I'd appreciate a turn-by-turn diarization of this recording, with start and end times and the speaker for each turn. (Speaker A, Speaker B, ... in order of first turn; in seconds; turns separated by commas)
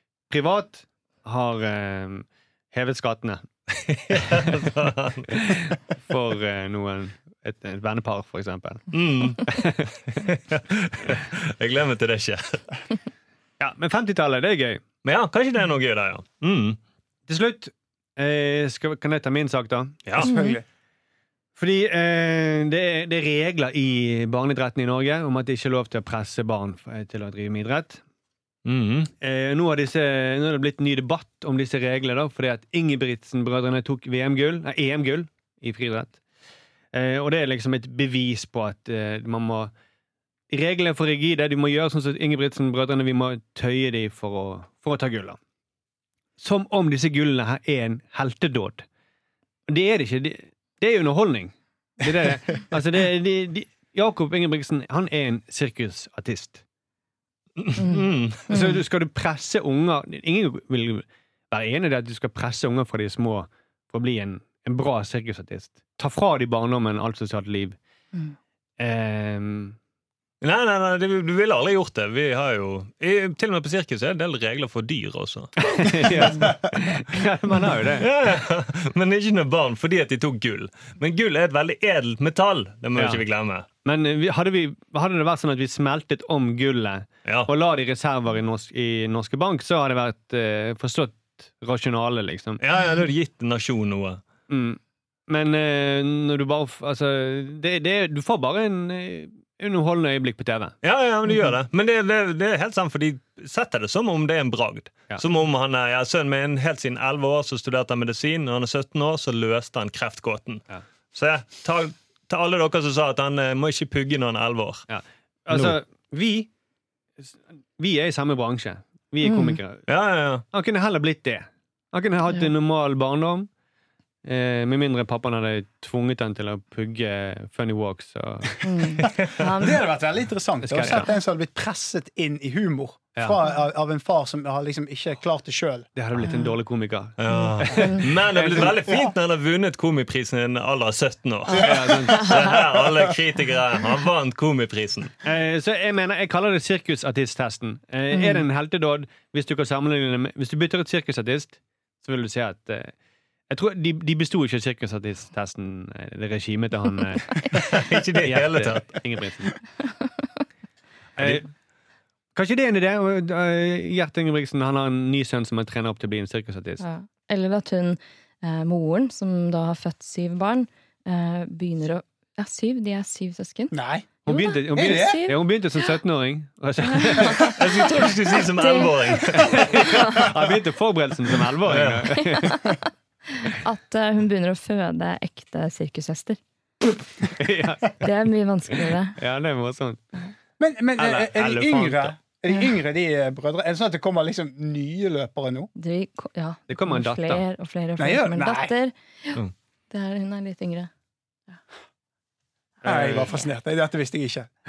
Speaker A: 0.3-3.4, Speaker B: 3.8-5.6, Speaker A: 5.3-9.9, Speaker B: 8.9-9.5, Speaker B: 10.2-12.7, Speaker A: 13.6-14.8, Speaker B: 15.0-16.8, Speaker A: 17.3-20.0, Speaker B: 20.1-20.4, Speaker C: 20.2-20.6, Speaker D: 20.2-20.6, Speaker A: 21.6-28.0, Speaker B: 28.6-29.1, Speaker A: 29.2-36.2, Speaker A: 36.9-39.7, Speaker A: 40.5-45.4, Speaker A: 46.4-48.9, Speaker A: 49.7-56.6, Speaker B: 57.6-58.5, Speaker D: 57.8-58.8, Speaker A: 58.5-67.8, Speaker A: 68.8-69.8, Speaker B: 70.4-75.8, Speaker A: 75.7-78.1, Speaker B: 77.9-83.7, Speaker A: 83.0-83.2, Speaker A: 83.8-92.6, Speaker B: 92.6-94.2, Speaker A: 94.5-100.8, Speaker B: 100.8-110.6, Speaker B: 111.1-114.9, Speaker A: 114.9-116.5, Speaker B: 115.5-115.8, Speaker A: 117.2-119.9, Speaker D: 119.2-119.6, Speaker B: 119.9-120.4, Speaker A: 120.5-123.5, Speaker A: 124.2-129.0, Speaker D: 128.6-129.8, Speaker C: 129.4-135.9, Speaker A: 130.6-131.1, Speaker A: 136.0-138.9, Speaker D: 136.2-136.5, Speaker B: 137.2-145.1, Speaker D: 137.3-138.0, Speaker C: 141.6-142.1, Speaker A: 141.6-142.4, Speaker A: 145.2-152.9, Speaker D: 148.1-148.4, Speaker A: 153.5-157.7, Speaker B: 157.5-158.9, Speaker A: 158.2-159.6, Speaker A: 161.2-161.5, Speaker A: 162.3-166.8, Speaker D: 166.8-173.8, Speaker C: 173.7-174.1, Speaker A: 174.2-177.5, Speaker D: 174.3-175.4, Speaker C: 174.7-175.3, Speaker D: 177.1-177.6, Speaker B: 177.4-179.8, Speaker D: 178.6-178.9, Speaker A: 179.4-182.6, Speaker C: 179.5-180.5, Speaker B: 181.7-182.1, Speaker D: 182.1-182.8, Speaker D: 183.4-186.4, Speaker A: 187.3-188.0, Speaker D: 188.0-189.2, Speaker A: 189.1-190.0, Speaker C: 190.6-195.7, Speaker A: 191.0-192.2, Speaker D: 195.8-199.4, Speaker A: 196.7-197.4, Speaker C: 198.0-198.7, Speaker D: 199.9-200.9, Speaker A: 202.8-203.3, Speaker C: 202.8-204.5